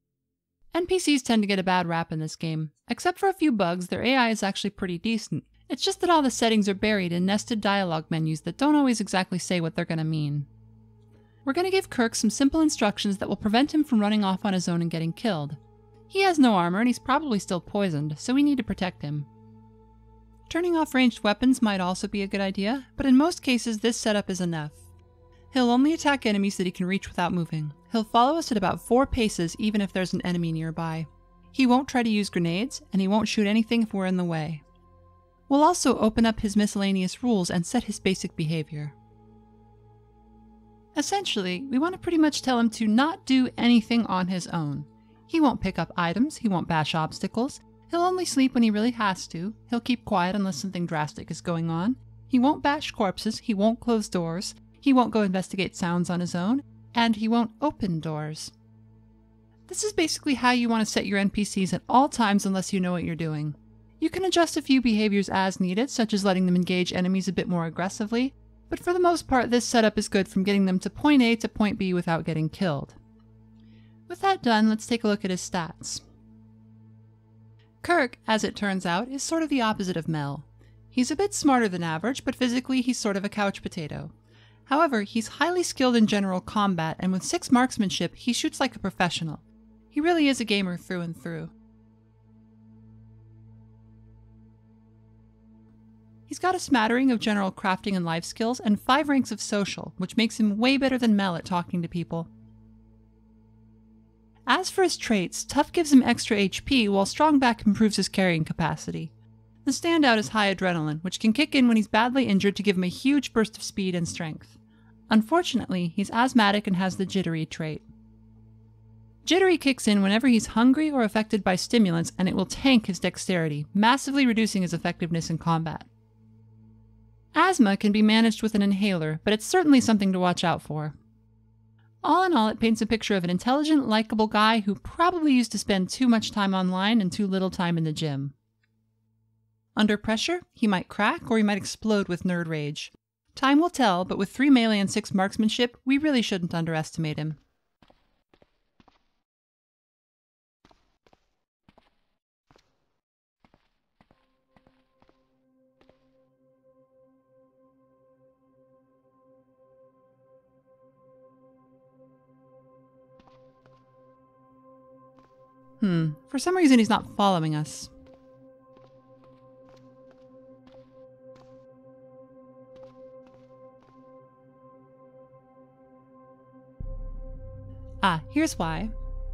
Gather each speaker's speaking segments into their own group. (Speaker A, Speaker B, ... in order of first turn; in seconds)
Speaker A: 0.7-10.5, 11.4-15.6, 16.1-19.3, 20.5-24.8, 25.5-34.6, 35.5-38.9, 40.9-58.5, 59.7-73.0, 74.1-76.0, 77.8-84.1, 84.7-91.5, 96.3-102.3, 104.5-109.1, 109.6-114.6, 115.1-117.8, 119.2-125.9, 127.3-130.9, 132.0-138.3, 139.8-147.4, 165.8-167.9, 178.0-178.9